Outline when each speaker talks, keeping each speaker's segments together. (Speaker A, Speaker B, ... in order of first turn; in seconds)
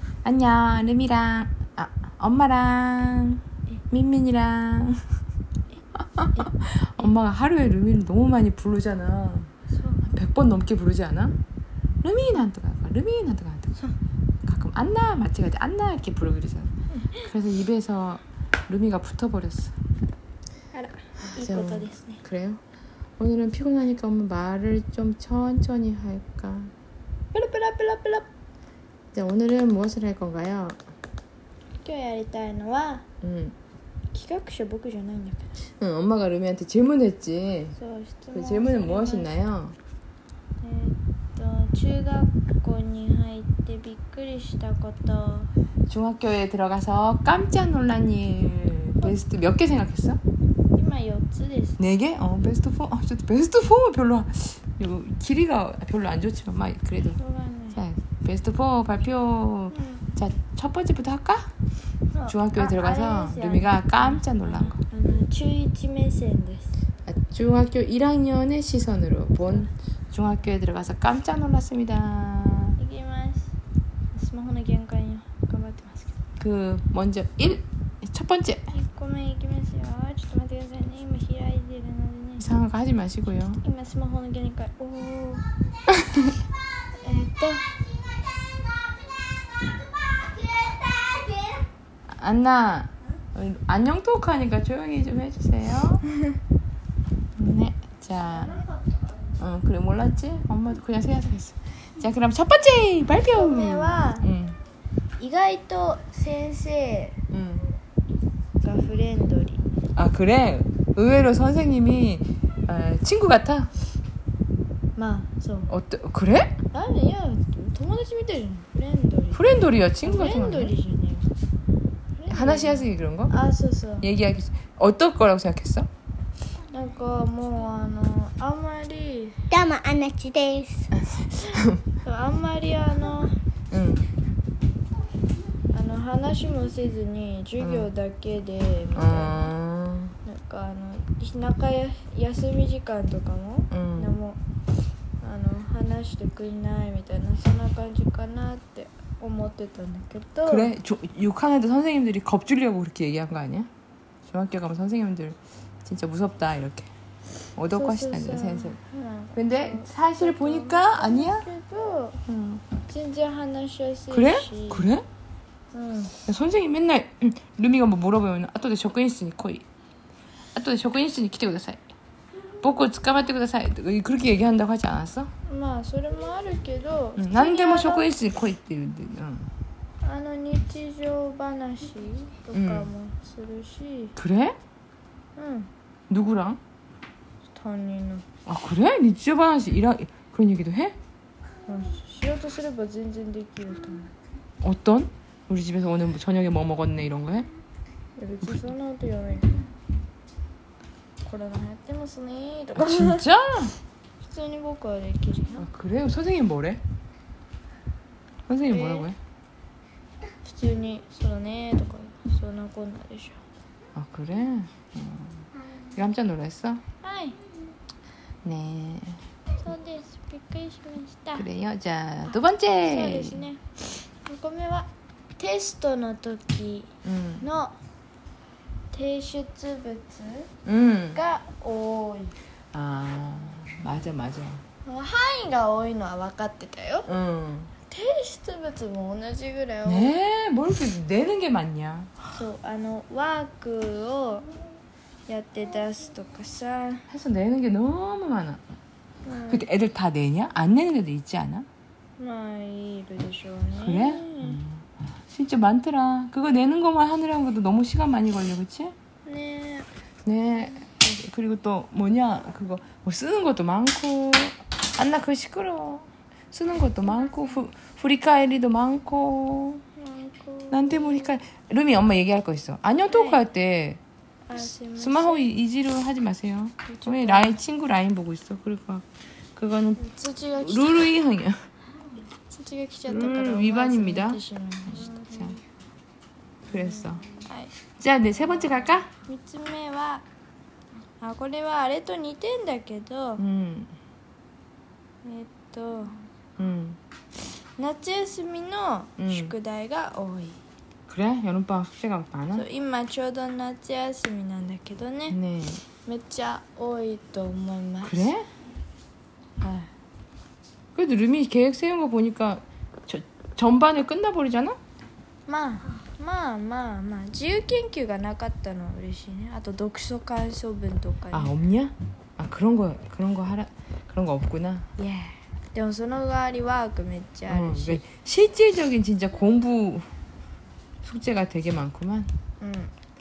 Speaker A: 0.2-5.0, 6.0-9.5, 10.1-11.3, 12.0-13.8, 14.4-19.7, 21.4-22.6, 23.2-26.7, 29.1-30.8, 33.2-33.5, 35.8-37.8, 38.3-39.8, 45.9-50.2, 51.8-57.2, 57.7-61.5, 62.3-64.8, 67.0-72.8, 76.4-78.7, 82.4-83.6, 92.1-96.0, 97.4-98.6, 99.4-104.6, 107.3-107.7, 110.0-113.7, 115.7-116.6, 119.3-120.7, 122.3-123.3, 124.0-125.9, 130.9-131.8, 133.7-134.0, 137.6-137.9, 138.9-140.1, 143.7-144.2, 150.4-153.7, 154.2-156.9, 157.6-158.8, 159.3-161.5, 162.3-162.6, 164.1-165.1, 166.2-169.6, 170.5-171.8, 172.6-175.3, 177.2-179.5, 182.5-182.9, 184.2-184.6, 186.1-186.6, 188.4-190.9, 194.6-197.5, 202.8-203.7, 205.6-206.8, 208.5-209.2, 213.9-216.8, 218.4-219.2, 221.3-223.5, 227.0-227.4, 230.6-231.2, 232.7-234.6, 237.1-237.7, 239.8-242.1, 247.1-248.6, 249.5-251.7, 253.8-258.9, 260.2-269.8, 270.7-274.0, 274.9-280.0, 280.6-281.6, 283.1-284.4, 284.9-285.6, 286.7-287.2, 288.0-289.1, 293.4-293.9, 296.6-297.0, 299.2-299.5, 301.1-302.6, 305.3-305.8, 308.0-308.4, 310.9-314.8, 321.3-324.9, 327.5-330.1, 331.0-332.3
Speaker B: 9.7-10.0, 20.7-22.2, 27.3-28.3, 31.8-33.0, 34.1-35.5, 37.8-39.3, 40.6-45.5, 50.7-51.8, 57.2-57.8, 59.7-60.0, 62.1-66.8, 72.8-73.5, 74.1-76.2, 78.7-82.4, 83.6-85.5, 87.0-87.7, 103.2-104.3, 105.2-107.2, 108.6-109.6, 115.0-115.7, 116.7-119.5, 120.0-121.3, 122.2-124.1, 126.7-129.4, 132.0-133.4, 135.7-139.5, 140.2-144.4, 145.2-150.7, 157.7-162.2, 162.8-164.9, 165.7-166.2, 175.5-178.1, 180.0-184.1, 185.3-185.7, 187.5-188.2, 191.7-194.1, 198.2-199.6, 201.2-203.2, 204.2-205.7, 208.7-209.1, 210.4-213.4, 217.0-217.4, 219.6-221.4, 222.8-223.6, 224.2-226.9, 227.4-227.7, 228.9-230.5, 231.1-232.3, 234.8-237.1, 237.9-240.1, 242.3-244.5, 245.3-247.1, 249.2-249.7, 252.2-254.6, 259.2-259.9, 269.9-271.3, 273.1-273.4, 274.5-275.4, 276.9-277.6, 280.0-281.1, 282.5-285.1, 287.4-287.7, 289.2-290.2, 291.2-293.4, 295.2-296.1, 297.8-300.6, 302.5-305.4, 306.1-308.3, 309.6-309.9, 315.5-321.5, 325.0-328.0, 332.6-332.9
Speaker C: 88.1-91.6, 129.5-130.9